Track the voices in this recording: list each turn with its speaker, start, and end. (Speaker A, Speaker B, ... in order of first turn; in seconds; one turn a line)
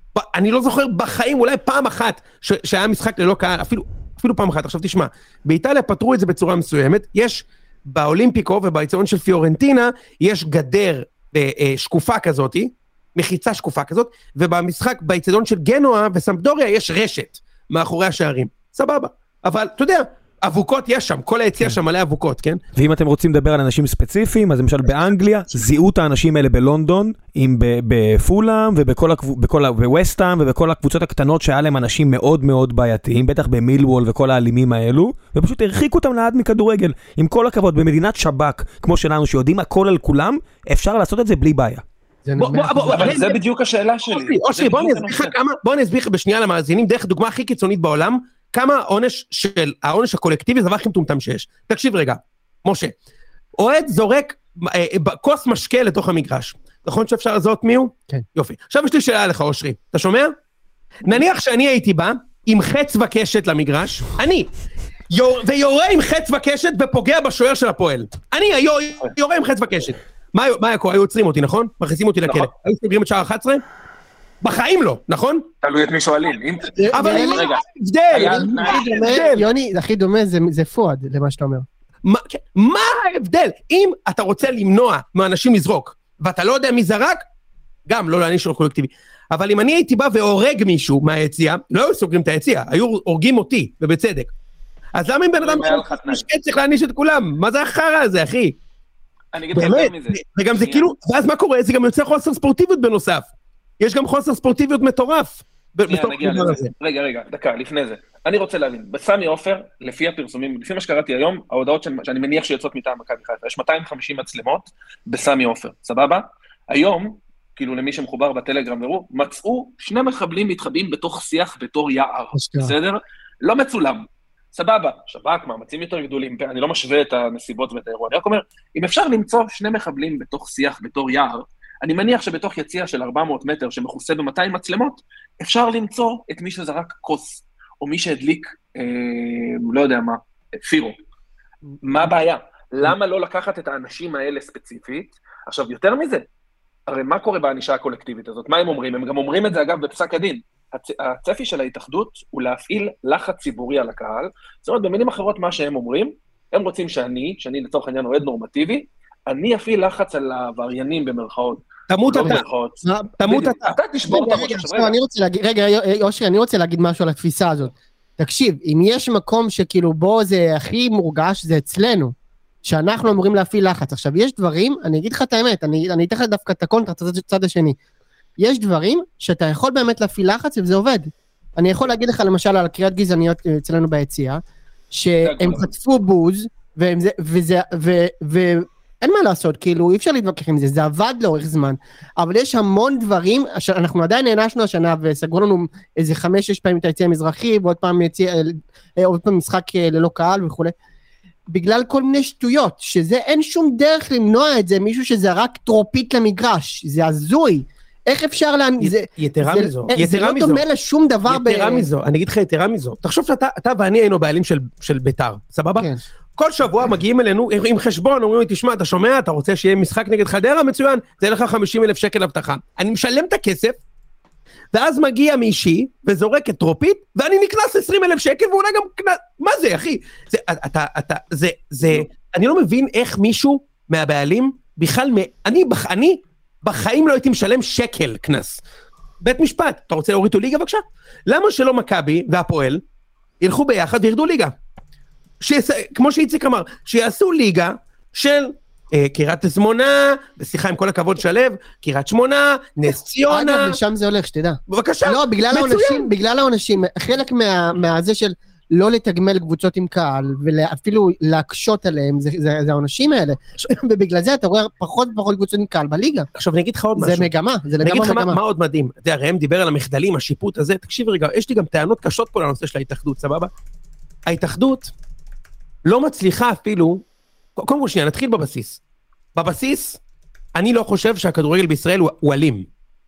Speaker A: 0.1-22.6
Speaker B: 22.7-41.8
Speaker C: 42.2-43.2
Speaker A: 42.4-43.4
Speaker D: 42.9-45.3
Speaker A: 44.1-52.9
Speaker A: 53.5-60.3
Speaker A: 61.0-64.5
Speaker A: 65.1-73.6
Speaker A: 74.4-75.5
Speaker D: 75.6-79.4
Speaker C: 76.8-77.5
Speaker A: 76.9-79.5
Speaker C: 78.1-81.7
Speaker A: 82.0-87.2
Speaker A: 87.9-94.3
Speaker A: 94.9-98.5
Speaker D: 95.4-96.2
Speaker D: 99.3-100.9
Speaker A: 99.5-103.3
Speaker A: 103.8-106.7
Speaker D: 105.9-140.9
Speaker C: 122.3-122.7
Speaker D: 141.8-146.2
Speaker D: 146.9-164.9
Speaker A: 161.9-162.4
Speaker C: 162.2-163.2
Speaker A: 163.2-163.8
Speaker C: 164.1-172.1
Speaker C: 172.6-177.8
Speaker C: 178.4-184.4
Speaker C: 184.9-200.7
Speaker D: 185.2-185.7
Speaker C: 201.5-211.9
Speaker A: 208.8-210.6
Speaker A: 211.3-223.8
Speaker A: 224.7-238.6
Speaker A: 239.2-242.8
Speaker A: 243.4-244.5
Speaker A: 245.4-253.8
Speaker C: 253.3-266.3
Speaker A: 254.7-256.1
Speaker A: 266.4-267.3
Speaker C: 266.9-268.4
Speaker A: 267.8-273.5
Speaker A: 274.3-274.9
Speaker A: 275.8-277.0
Speaker A: 277.6-278.8
Speaker A: 279.3-280.0
Speaker A: 280.5-282.7